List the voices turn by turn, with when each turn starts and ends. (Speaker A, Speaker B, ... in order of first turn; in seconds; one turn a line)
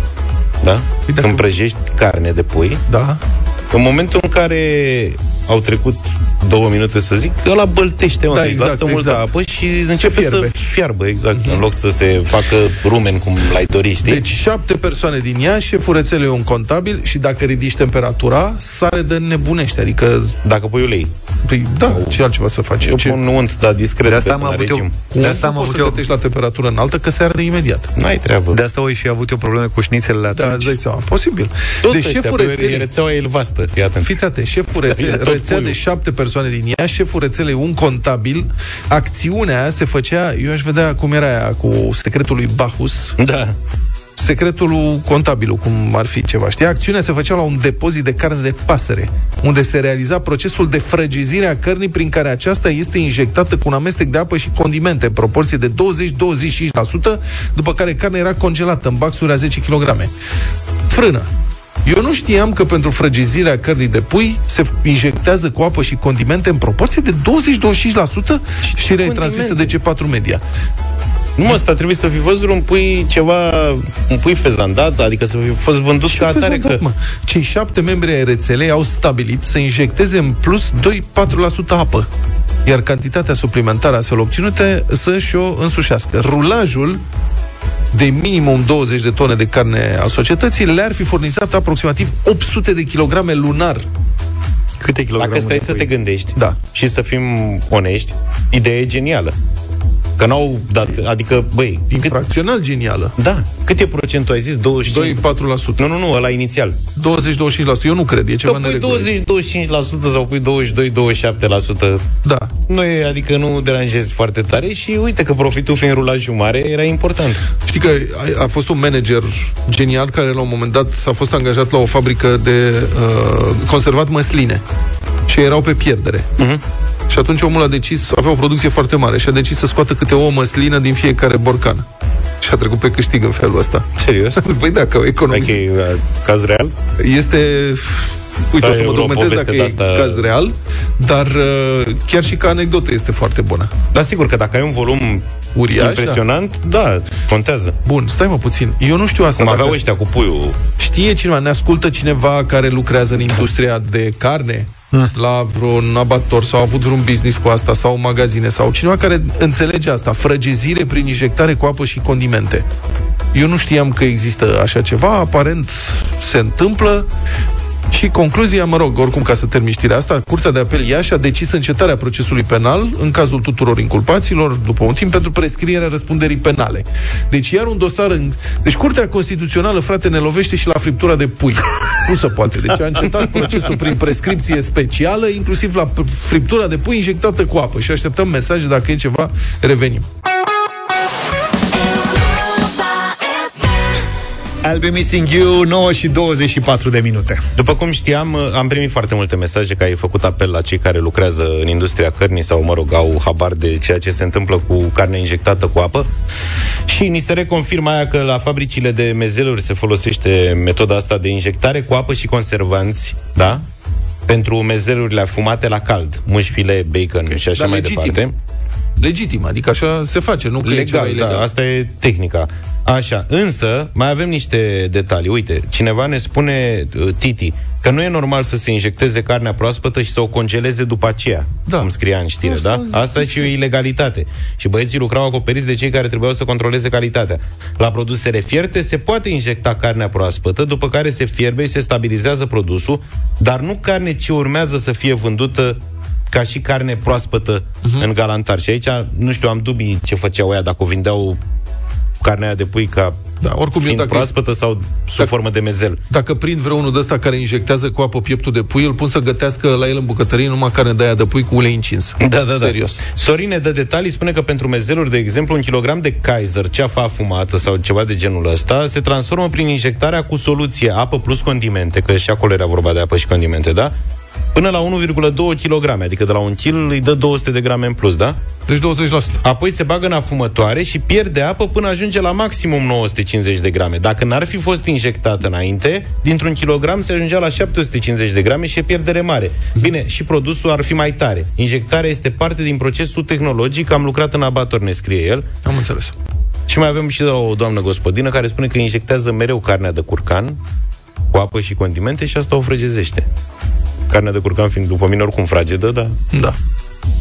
Speaker A: 0.6-2.8
Speaker B: 1.1-1.4
Speaker B: 2.9-3.2
Speaker A: 3.7-14.2
Speaker B: 8.3-9.3
Speaker B: 9.9-10.5
Speaker B: 11.3-11.6
Speaker B: 14.0-20.3
Speaker A: 20.4-21.1
Speaker B: 21.4-23.2
Speaker A: 21.8-22.2
Speaker A: 22.8-24.9
Speaker C: 24.1-26.0
Speaker B: 25.1-27.9
Speaker A: 27.9-28.6
Speaker C: 28.5-30.7
Speaker B: 30.3-32.9
Speaker A: 31.8-34.1
Speaker B: 34.0-43.1
Speaker A: 34.8-35.8
Speaker A: 43.2-43.5
Speaker B: 44.2-60.1
Speaker B: 60.9-61.3
Speaker B: 61.8-70.4
Speaker A: 68.6-69.7
Speaker A: 71.4-76.8
Speaker B: 76.1-82.1
Speaker B: 82.6-87.0
Speaker B: 87.9-93.9
Speaker C: 94.8-95.9
Speaker A: 95.2-99.3
Speaker A: 100.2-102.1
Speaker B: 101.9-103.1
Speaker A: 103.2-105.2
Speaker B: 104.8-105.9
Speaker A: 105.8-106.8
Speaker B: 107.0-109.1
Speaker A: 108.4-112.0
Speaker B: 112.2-112.5
Speaker A: 112.7-117.4
Speaker B: 117.6-124.6
Speaker B: 125.3-126.3
Speaker B: 127.1-131.9
Speaker B: 132.4-133.8
Speaker A: 134.0-134.4
Speaker B: 134.4-135.6
Speaker A: 135.3-136.7
Speaker B: 137.0-143.8
Speaker A: 138.6-140.3
Speaker A: 143.9-145.2
Speaker B: 145.6-146.2
Speaker A: 145.8-147.8
Speaker B: 147.8-149.8
Speaker A: 149.4-150.6
Speaker B: 150.8-162.6
Speaker B: 163.3-167.1
Speaker B: 167.9-190.1
Speaker C: 194.6-197.4
Speaker A: 197.6-206.1
Speaker A: 206.9-213.6
Speaker A: 214.3-218.3
Speaker B: 217.3-218.2
Speaker B: 219.0-221.5
Speaker A: 220.6-245.8
Speaker B: 231.7-231.9
Speaker B: 232.4-233.5
Speaker A: 246.3-251.4
Speaker A: 252.2-253.2
Speaker B: 253.4-254.3
Speaker A: 253.8-256.0
Speaker B: 256.1-263.0
Speaker A: 262.2-273.9
Speaker A: 274.5-278.4
Speaker B: 278.7-279.4
Speaker A: 279.4-295.4
Speaker B: 295.6-296.1
Speaker A: 296.7-300.6
Speaker A: 301.3-303.3
Speaker A: 304.1-306.1